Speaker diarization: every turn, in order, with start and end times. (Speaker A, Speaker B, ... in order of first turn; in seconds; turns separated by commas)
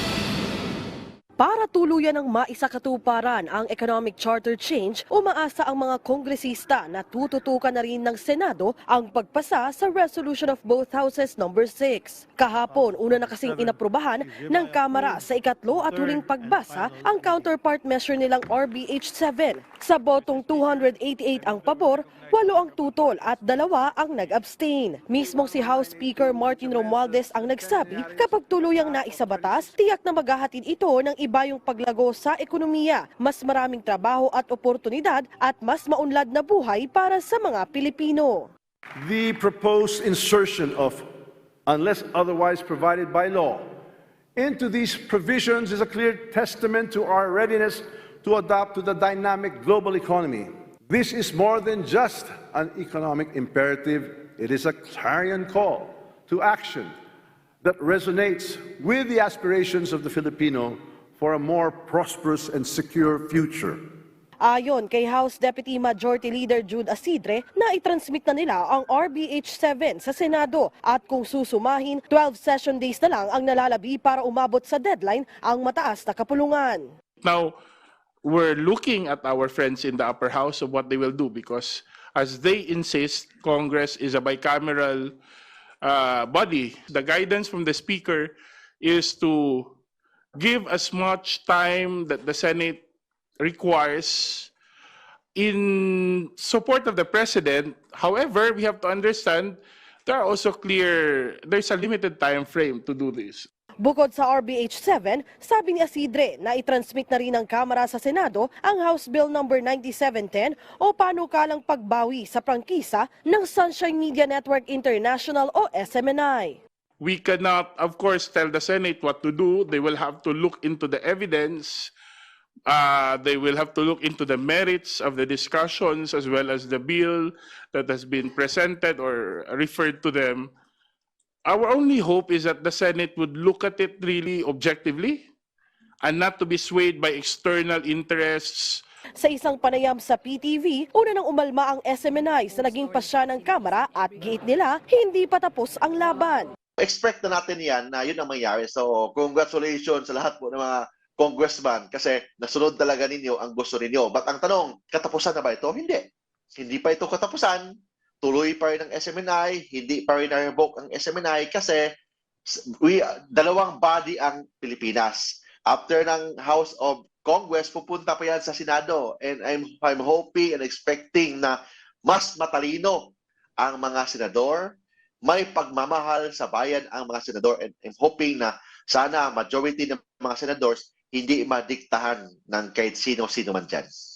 Speaker A: 1.4-38.5, Speaker B: 25.2-29.7, Speaker B: 39.0-41.0, Speaker B: 41.6-43.7, Speaker B: 44.4-56.9, Speaker B: 57.6-63.8, Speaker A: 64.4-76.9, Speaker C: 77.2-77.5, Speaker C: 78.2-85.1, Speaker C: 85.8-89.7, Speaker C: 90.4-92.8, Speaker C: 93.4-94.5, Speaker C: 95.3-103.5, Speaker A: 103.8-116.6, Speaker C: 117.0-121.9, Speaker C: 122.7-130.5, Speaker C: 131.4-135.2, Speaker C: 136.0-138.8, Speaker A: 139.2-146.5, Speaker D: 146.8-156.1, Speaker D: 156.6-157.7, Speaker D: 158.2-161.9, Speaker D: 162.5-174.7, Speaker D: 175.2-183.9